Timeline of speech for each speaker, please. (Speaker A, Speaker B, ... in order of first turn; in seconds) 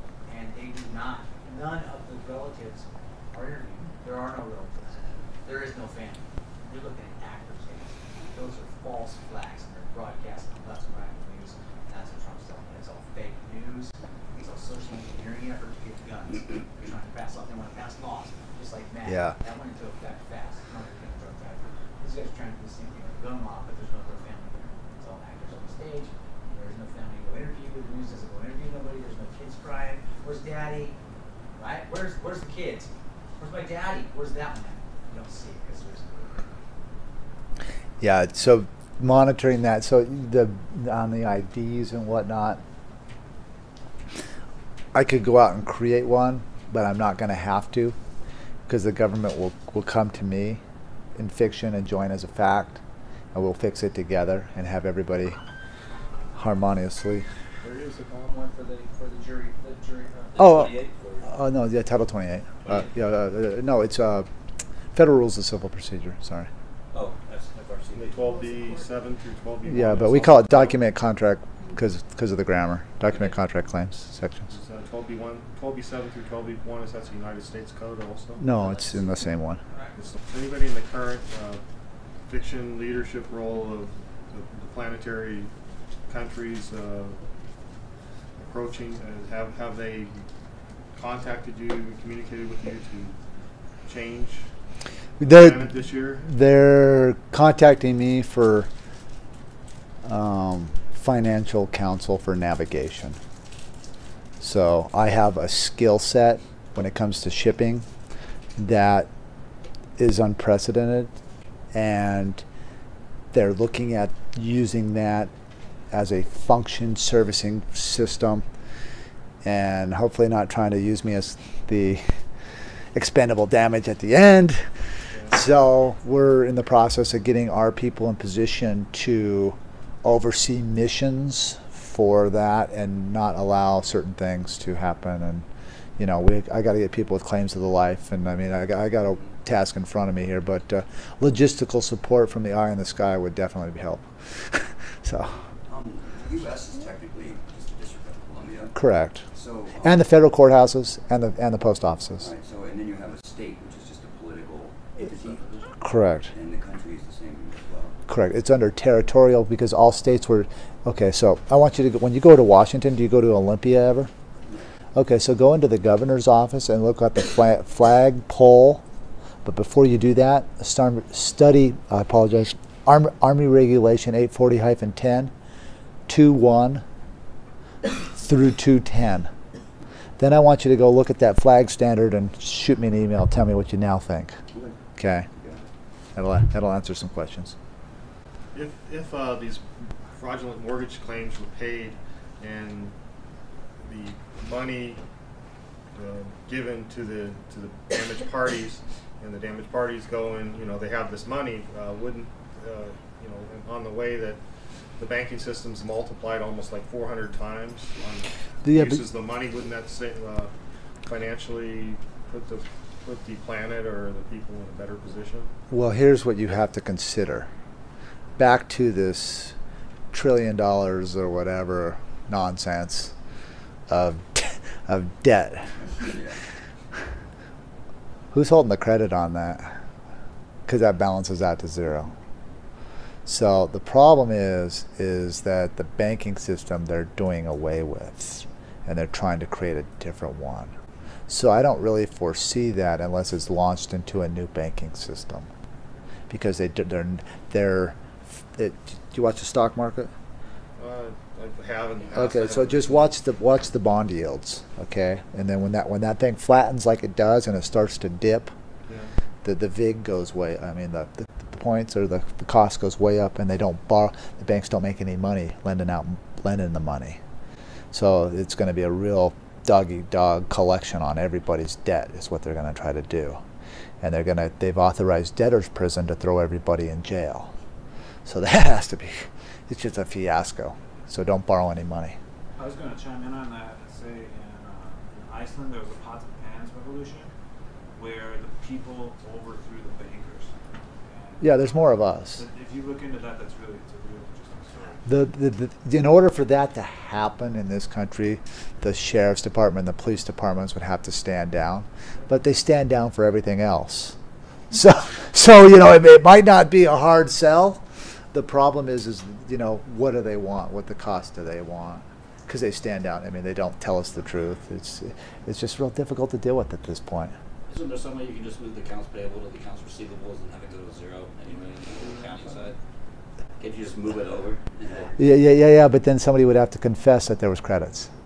Speaker A: 0.3-30.9, 31.6-36.5, 57.6-60.5, 78.5-79.1, 79.7-80.0
Speaker B: 19.1-19.4, 38.0-42.6, 44.9-48.0, 48.7-50.6, 51.2-52.8, 53.3-55.4, 56.4-57.3, 60.4-64.3, 64.9-66.5, 69.7-74.5, 78.4-79.6, 95.2-98.7, 100.0-103.2, 104.4-107.8, 108.6-109.1, 110.0-111.1, 111.7-112.4, 113.3-115.3, 115.9-118.5, 119.4-122.2, 122.9-135.5, 136.0-145.5, 148.7-149.3, 149.8-152.3, 155.8-156.3, 158.1-164.1, 164.9-168.8, 169.4-175.3, 176.1-176.8, 178.1-179.3, 180.2-184.4, 185.0-185.3, 186.2-187.6, 208.6-209.0, 215.7-217.5, 218.4-219.6, 220.1-223.1, 223.9-225.7, 228.3-229.8, 230.7-232.1, 233.3-240.7, 241.3-245.5, 246.3-250.1, 252.1-258.5, 259.4-267.2, 267.9-273.4, 274.0-277.5, 278.3-282.2, 291.4-292.4, 295.1-304.2, 304.7-317.4, 325.2-328.1
Speaker C: 60.4-61.3, 66.9-68.5, 317.7-322.8, 323.6-325.2
Speaker D: 67.9-70.8, 74.5-78.6, 80.0-81.6, 82.3-85.5, 86.1-87.2, 88.4-90.2, 91.0-93.2, 93.9-94.5, 95.2-96.3, 125.1-125.4, 188.5-189.7, 190.2-192.9, 193.8-195.0, 195.9-204.4, 205.0-210.5, 211.1-215.5, 250.8-253.1
Speaker E: 145.7-148.8, 149.3-150.0, 152.2-155.7, 156.3-158.0, 184.5-184.8, 185.3-185.6, 226.0-226.4
Speaker F: 282.6-287.3, 288.0-295.1